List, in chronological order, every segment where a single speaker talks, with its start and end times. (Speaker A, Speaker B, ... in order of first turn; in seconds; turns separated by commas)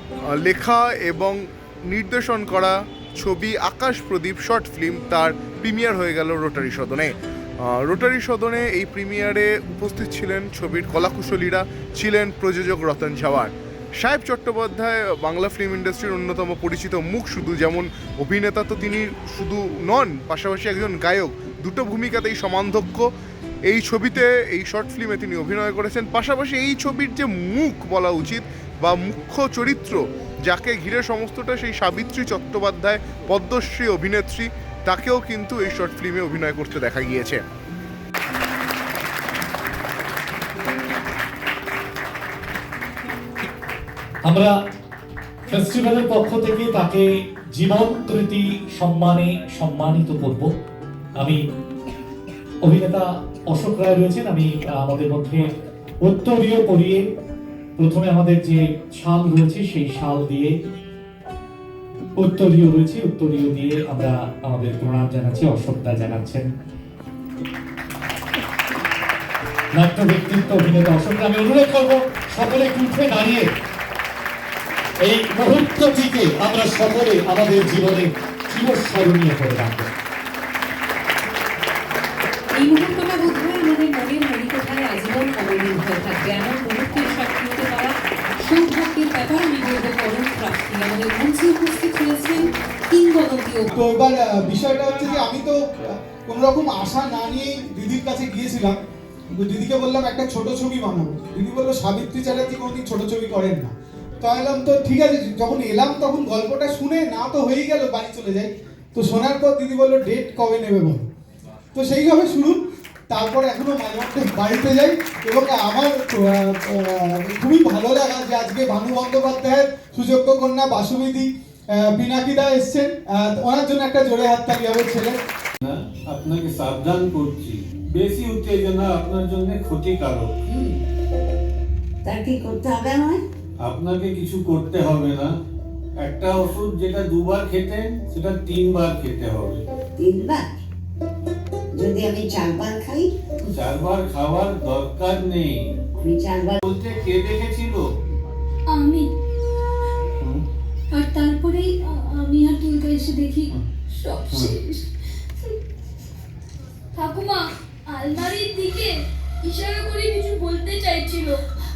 Speaker A: 0.4-1.4, Speaker A: 1.9-23.1, Speaker A: 23.7-37.4, Speaker B: 44.2-44.5, Speaker B: 45.5-50.5, Speaker B: 52.6-55.5, Speaker B: 56.0-57.0, Speaker B: 57.8-60.5, Speaker B: 62.1-66.5, Speaker B: 69.7-73.5, Speaker B: 75.0-79.9, Speaker C: 82.6-93.7, Speaker D: 93.7-98.8, Speaker D: 99.3-111.1, Speaker D: 111.7-125.2, Speaker E: 125.6-130.3, Speaker F: 130.5-130.7, Speaker F: 132.0-133.2, Speaker E: 133.6-135.3, Speaker E: 136.0-139.6, Speaker F: 140.0-140.5, Speaker F: 141.7-143.1, Speaker E: 143.5-145.7, Speaker F: 145.9-146.6, Speaker E: 146.6-147.8, Speaker G: 148.7-149.1, Speaker G: 150.9-154.9, Speaker G: 156.9-161.4